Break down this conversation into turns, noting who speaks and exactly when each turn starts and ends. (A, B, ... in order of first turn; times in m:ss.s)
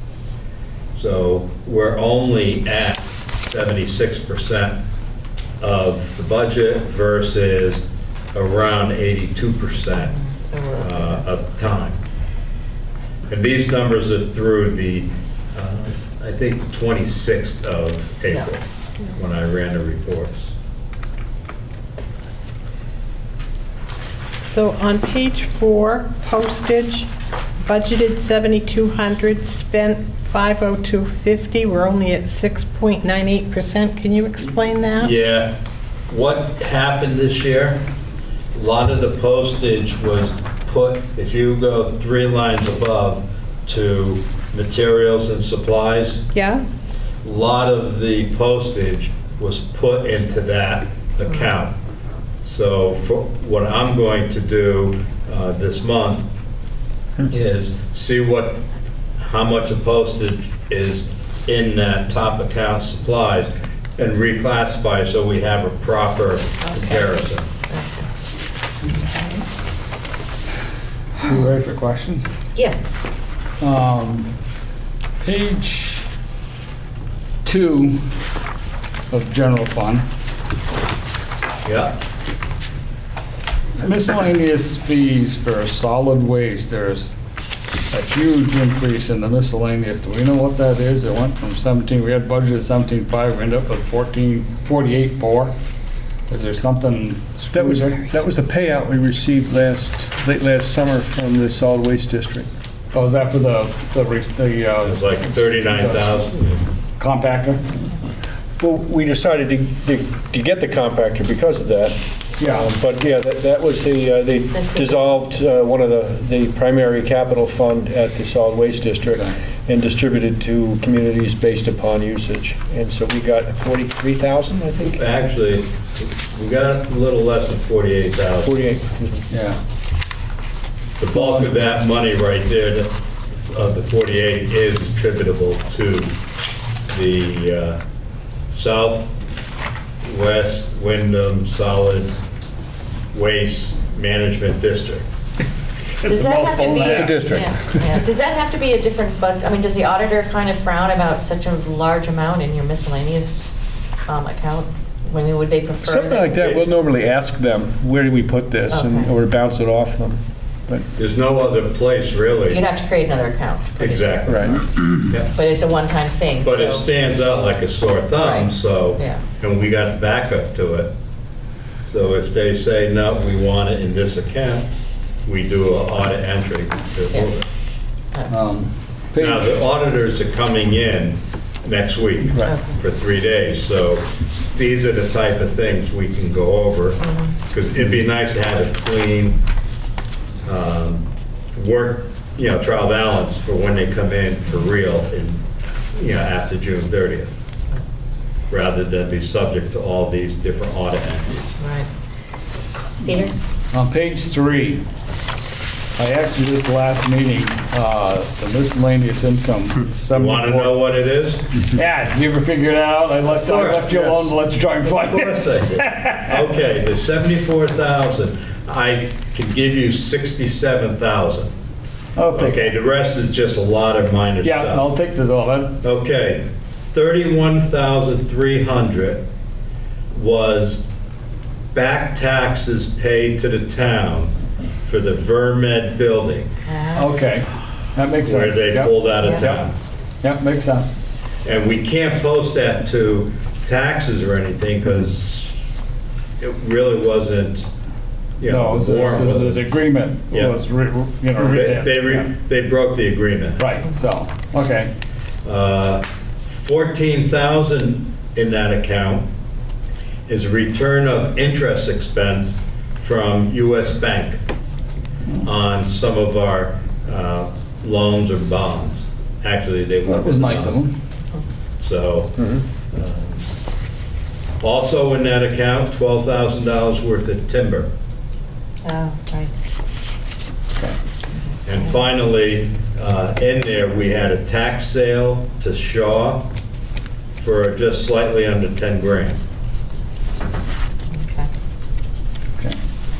0:00.9-0:04.8 A
0:05.6-0:10.2 A
0:09.9-0:11.2 B
0:10.8-0:12.0 A
0:13.3-0:20.5 A
0:24.4-0:27.1 C
0:27.6-0:35.1 C
0:35.0-0:35.6 A
0:36.1-0:37.8 A
0:38.5-0:46.2 A
0:46.3-0:46.6 C
0:47.2-0:51.7 A
0:52.4-0:56.3 A
0:57.3-0:58.6 A
0:59.2-1:07.5 A
1:06.6-1:07.1 B
1:07.7-1:08.1 B
1:11.2-1:12.3 D
1:13.6-1:14.3 D
1:15.2-1:16.1 D
1:17.4-1:18.0 D
1:19.1-1:20.0 D
1:21.6-1:22.0 A
1:23.8-1:27.2 D
1:27.9-1:35.5 D
1:36.3-1:38.0 D
1:37.5-1:42.5 E
1:42.9-1:46.3 D
1:44.8-1:46.6 A
1:47.0-1:47.6 D
1:48.6-2:05.0 E
1:52.4-1:52.7 D
1:54.5-1:54.9 B
1:59.0-1:59.3 D
2:04.9-2:08.6 A
2:08.4-2:09.3 E
2:09.3-2:09.6 D
2:11.0-2:12.9 A
2:11.1-2:11.4 D
2:13.5-2:16.1 A
2:16.9-2:17.8 A
2:18.5-2:19.2 A
2:20.0-2:22.1 A
2:23.1-2:25.0 A
2:26.0-2:27.4 D
2:26.0-2:36.5 B
2:26.9-2:27.9 E
2:35.8-2:40.8 E
2:38.7-2:39.1 B
2:41.0-2:42.6 A
2:42.5-2:44.2 B
2:43.8-2:45.3 A
2:44.3-2:44.6 E
2:45.3-2:46.9 B
2:46.4-2:50.9 A
2:48.2-2:49.2 B
2:51.8-2:54.7 A
2:55.2-2:57.4 A
2:58.3-2:59.5 D
2:59.2-3:09.4 A
3:02.4-3:02.8 B
3:07.0-3:07.3 B
3:10.4-3:17.4 A
3:18.5-3:21.6 A
3:21.6-3:21.9 B
3:23.0-3:23.4 B
3:23.7-3:24.8 D
3:26.0-3:30.8 D
3:30.1-3:31.5 A
3:31.6-3:36.4 D
3:33.3-3:34.3 A
3:34.9-3:41.5 A
3:42.2-3:42.7 D
3:42.3-3:44.9 A
3:44.4-3:45.8 D
3:45.8-3:49.2 A
3:50.1-3:50.9 A
3:51.7-3:54.3 A
3:54.8-3:56.5 A
3:56.6-3:57.1 B
3:56.9-3:59.6 D
3:58.2-3:59.7 A
3:59.2-3:59.5 B
4:00.2-4:00.9 D
4:01.4-4:05.6 A
4:06.4-4:07.7 A
4:08.4-4:10.5 A
4:08.4-4:12.3 D
4:11.3-4:13.6 A
4:13.6-4:14.9 D
4:15.4-4:19.3 A
4:20.3-4:24.4 A
4:25.4-4:30.8 A
4:30.0-4:31.0 D
4:31.8-4:33.5 A
4:34.6-4:37.9 A
4:38.8-4:39.5 B
4:41.3-4:41.9 B
4:41.6-4:46.5 A
4:47.4-4:49.4 A
4:51.1-4:51.5 B